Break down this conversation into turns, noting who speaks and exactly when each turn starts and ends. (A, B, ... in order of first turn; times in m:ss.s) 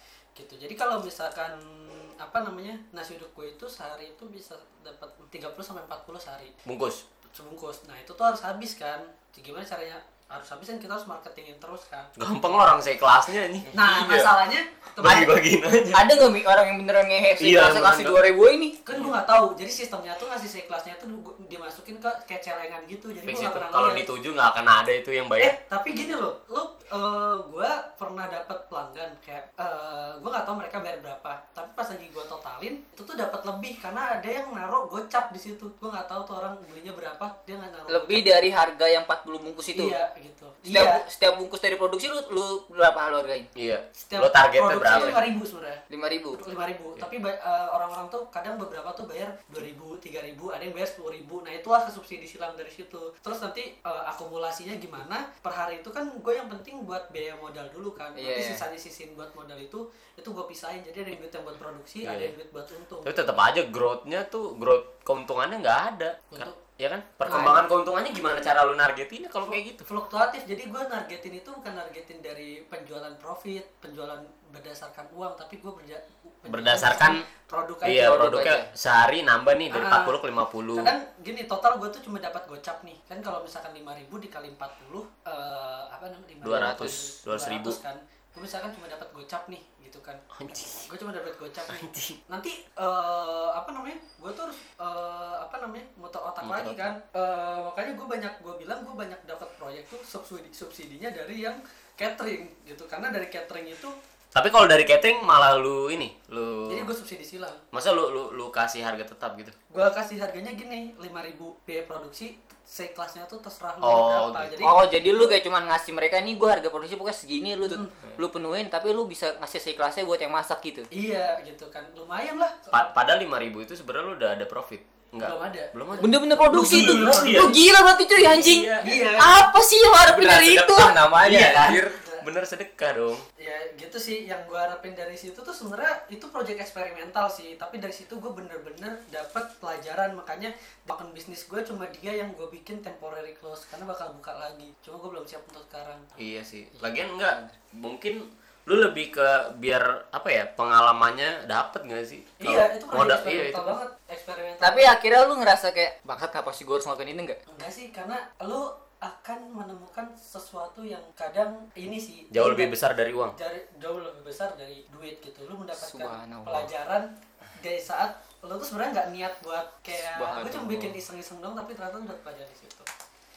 0:00.4-0:06.5 A
0:06.7-0:07.0 B
0:07.3-0:12.8 A
0:12.2-0:14.2 B
0:13.7-0:15.4 A
0:13.7-0:14.3 C
0:15.0-0:16.1 B
0:15.9-0:18.8 D
0:17.4-0:18.2 B
0:18.8-0:24.1 A
0:23.2-0:25.6 B
0:25.4-0:38.4 A
0:37.9-0:40.0 D
0:39.7-0:41.0 A
0:40.7-0:43.5 D
0:43.6-0:45.2 B
0:44.0-1:03.4 A
0:44.9-0:45.2 D
0:45.9-0:46.4 D
0:58.2-0:58.6 D
1:02.0-1:02.3 B
1:03.0-1:09.9 B
1:06.3-1:06.6 A
1:07.3-1:07.6 D
1:07.3-1:07.6 A
1:09.8-1:18.6 A
1:16.5-1:17.2 B
1:17.8-1:20.9 B
1:18.0-1:18.7 D
1:19.7-1:20.2 A
1:20.7-1:30.2 A
1:26.4-1:27.8 B
1:26.5-1:26.9 D
1:30.3-1:30.9 B
1:30.9-1:44.0 A
1:31.7-1:32.2 B
1:36.4-1:36.9 B
1:44.4-1:46.9 B
1:46.7-1:47.6 A
1:47.7-1:49.5 B
1:49.7-1:54.8 A
1:53.8-1:54.7 B
1:54.6-2:00.9 D
1:57.7-1:58.0 A
2:00.9-2:02.9 A
2:02.7-2:07.6 B
2:05.2-2:07.5 A
2:06.0-2:11.0 D
2:08.2-2:08.9 B
2:08.8-2:09.4 A
2:10.0-2:11.9 C
2:11.2-2:13.2 B
2:12.0-2:12.2 A
2:13.4-2:26.1 A
2:26.2-2:33.8 B
2:26.8-2:27.5 D
2:32.4-2:34.9 A
2:34.6-2:37.4 D
2:37.5-2:42.7 A
2:42.3-2:43.4 B
2:43.3-2:52.9 A
2:45.8-2:46.7 D
2:50.1-2:51.0 D